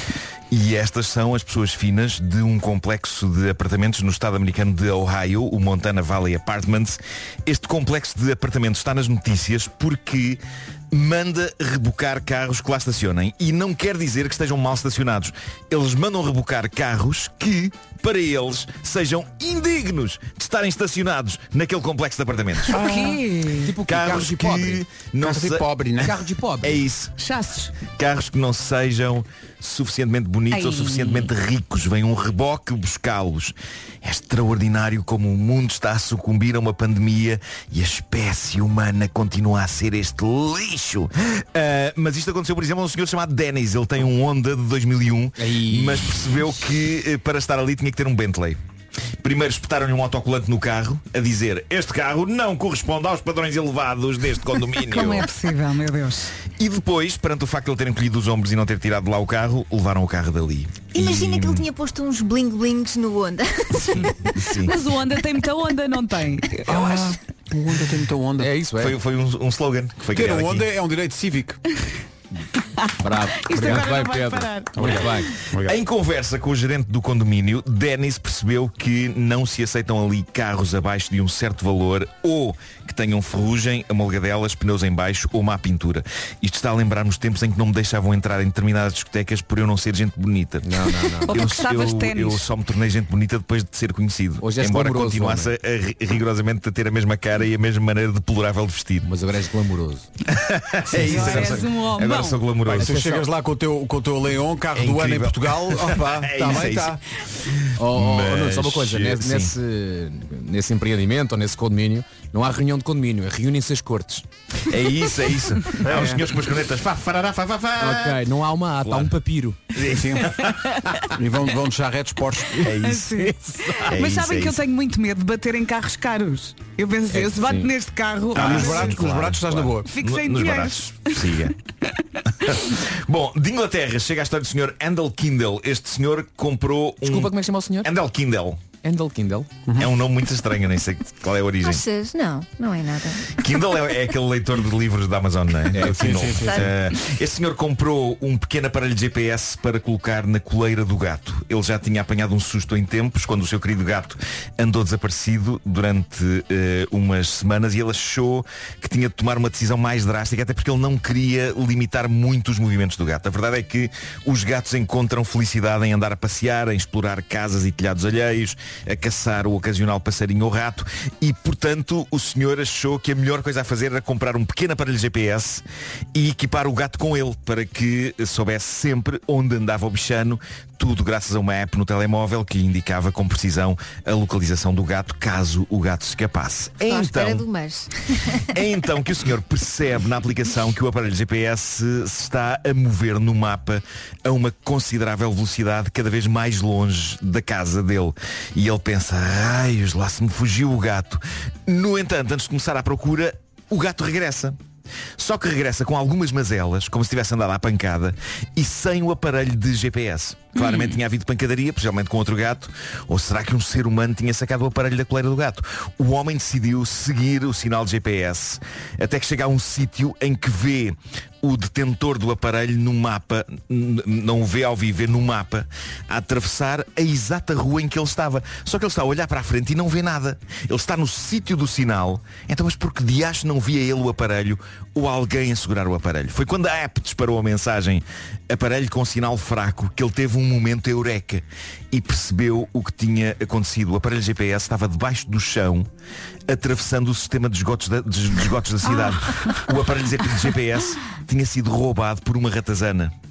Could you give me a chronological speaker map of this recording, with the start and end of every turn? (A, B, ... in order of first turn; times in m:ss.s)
0:00.5-0:10.4 A
0:10.9-0:22.8 A
0:22.7-0:23.6 B
0:22.7-0:23.7 C
0:23.6-0:24.8 D
0:23.8-0:25.7 A
0:25.2-0:26.2 B
0:26.0-0:26.8 D
0:26.6-0:27.1 A
0:27.2-0:27.7 C
0:27.9-0:48.6 A
0:30.5-0:31.3 C
0:45.4-0:46.3 D
0:49.2-0:55.3 A
0:54.9-0:56.3 C
0:56.6-1:01.7 A
1:00.9-1:04.4 E
1:04.0-1:04.8 A
1:04.6-1:07.1 C
1:06.6-1:08.5 B
1:08.4-1:08.9 D
1:08.8-1:10.7 A
1:10.1-1:11.6 B
1:12.8-1:14.7 C
1:13.0-1:15.3 D
1:14.8-1:15.8 B
1:15.6-1:39.1 A
1:30.6-1:31.3 D
1:31.3-1:32.4 C
1:34.4-1:35.5 D
1:39.0-1:40.0 D
1:40.3-1:43.1 A
1:40.9-1:41.6 B
1:41.1-1:42.4 C
1:42.7-1:47.0 B
1:42.7-1:43.2 D
1:44.7-1:49.5 A
1:47.8-1:54.2 D
1:54.7-1:58.2 A
1:55.8-1:56.1 D
1:55.8-1:56.2 B
1:57.8-1:59.6 D
1:58.8-1:59.1 A
1:59.7-2:01.0 A
1:59.9-2:00.3 B
2:01.1-2:02.7 B
2:02.6-2:04.6 A
2:02.8-2:09.0 C
2:07.1-2:07.7 D
2:08.3-2:11.5 A
2:08.3-2:09.9 B
2:09.9-2:11.2 C
2:12.4-2:18.6 A
2:17.0-2:17.9 D
2:18.8-2:19.5 D
2:19.8-2:21.8 A
2:21.6-2:23.7 E
2:23.4-3:07.5 A
2:25.7-2:26.3 D
2:25.7-2:26.7 B
2:26.4-2:26.7 E
3:06.8-3:08.5 E
3:08.5-3:24.6 A
3:25.2-4:05.9 A
3:30.5-3:31.0 C
4:06.5-4:13.1 A